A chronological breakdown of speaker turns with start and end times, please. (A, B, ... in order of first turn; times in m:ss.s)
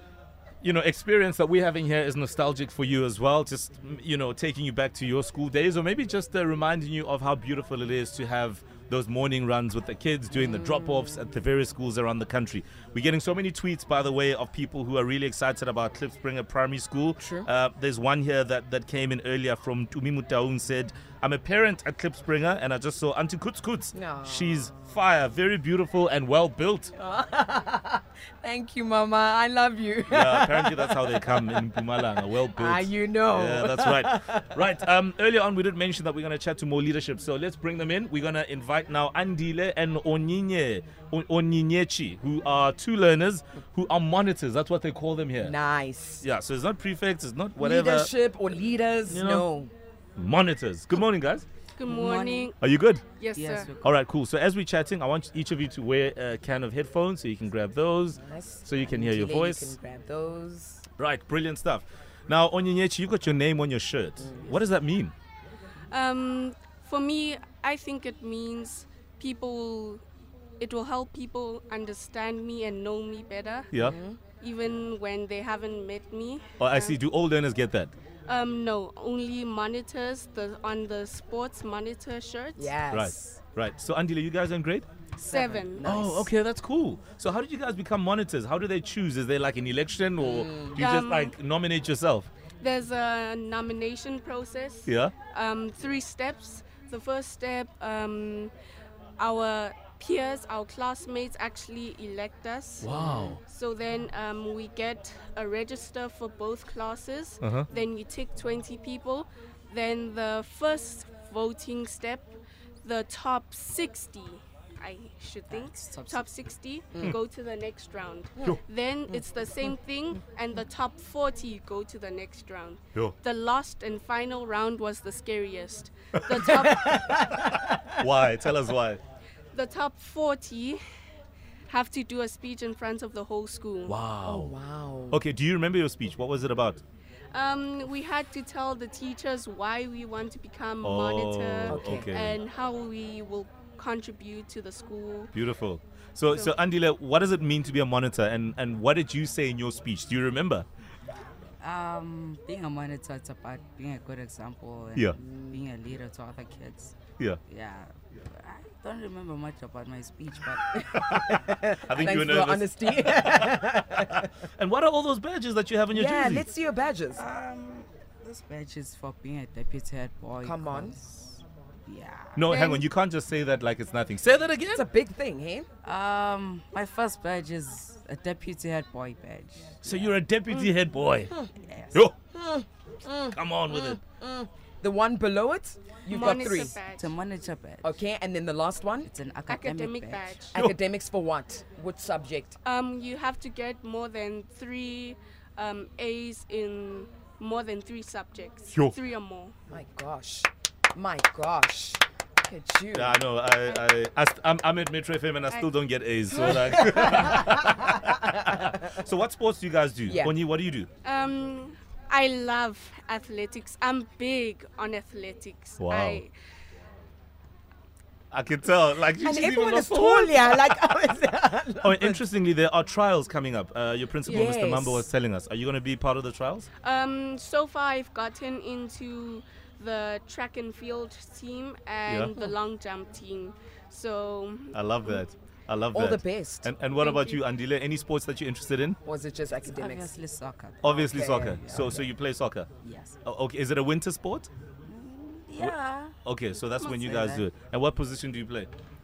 0:00.6-0:26.9 A
0:10.4-0:11.1 B
0:17.2-0:17.5 B
0:23.9-0:24.7 B
0:26.9-0:34.7 B
0:30.1-0:45.5 A
0:45.4-0:46.2 B
0:46.2-0:48.1 A
0:47.6-0:49.7 B
0:49.1-0:49.4 A
0:50.2-0:51.4 A
0:51.7-0:52.6 C
0:51.8-0:52.5 D
0:52.6-0:53.0 A
0:53.2-0:53.7 C
0:53.3-0:53.9 D
0:53.8-0:59.8 A
0:58.1-1:00.8 B
1:01.0-1:05.1 A
1:04.2-1:04.5 B
1:05.9-1:10.0 C
1:10.6-1:13.7 C
1:13.7-1:14.0 A
1:13.8-1:14.2 B
1:14.3-1:17.0 C
1:16.6-1:17.9 A
1:18.3-1:22.7 C
1:22.6-1:23.4 B
1:22.9-1:24.9 A
1:25.2-1:26.3 B
1:25.2-1:25.9 C
1:25.8-1:32.3 A
1:30.2-1:30.8 B
1:30.8-1:31.4 C
1:32.6-1:38.5 C
1:34.9-1:35.1 A
1:39.2-2:07.0 C
1:42.8-1:43.4 A
1:42.9-1:43.3 B
1:47.4-1:47.7 A
1:55.5-1:56.3 D
2:06.1-2:06.4 A
2:06.5-2:08.0 B
2:07.9-2:09.0 A
2:09.5-2:10.8 C
2:11.7-2:13.9 C
2:13.9-2:14.5 A
2:14.2-2:15.2 B
2:15.1-2:16.8 A
2:17.3-2:25.3 C
2:20.8-2:22.4 A
2:21.7-2:22.1 B
2:25.3-2:30.7 A
2:26.3-2:26.5 C
2:31.6-2:41.2 D
2:41.1-2:44.2 B
2:41.1-2:46.5 A
2:45.9-2:47.2 B
2:47.2-2:52.5 D
2:50.4-2:51.0 B
2:52.3-2:54.8 A
2:52.4-2:52.8 C
2:54.7-2:55.7 B
2:55.8-3:00.2 D
2:59.8-3:01.3 A
3:01.5-3:02.1 D
3:02.3-3:06.8 B
3:03.3-3:04.0 A
3:06.1-3:07.1 C
3:06.2-3:08.0 D
3:07.8-3:09.1 B
3:09.0-3:10.5 D
3:09.5-3:10.6 C
3:10.5-3:12.6 B
3:12.6-3:19.5 C
3:19.7-3:23.2 B
3:22.9-3:30.9 A
3:26.3-3:27.2 C
3:26.5-3:28.1 B
3:30.1-3:30.3 B
3:31.0-3:36.3 C
3:35.8-3:36.2 A
3:38.3-3:40.9 A
3:39.2-3:42.2 B
3:41.8-3:46.7 A
3:44.3-3:45.0 B
3:46.8-3:55.2 C
3:52.1-3:52.3 A
3:54.7-3:59.0 A
3:55.9-3:56.7 B
3:56.9-3:57.4 C
3:59.0-4:00.1 B
3:59.6-4:02.1 D
4:00.8-4:02.7 A
4:01.1-4:01.5 B
4:02.8-4:03.2 D
4:03.2-4:04.5 A
4:04.9-4:06.2 D
4:05.6-4:08.7 A
4:06.8-4:07.5 D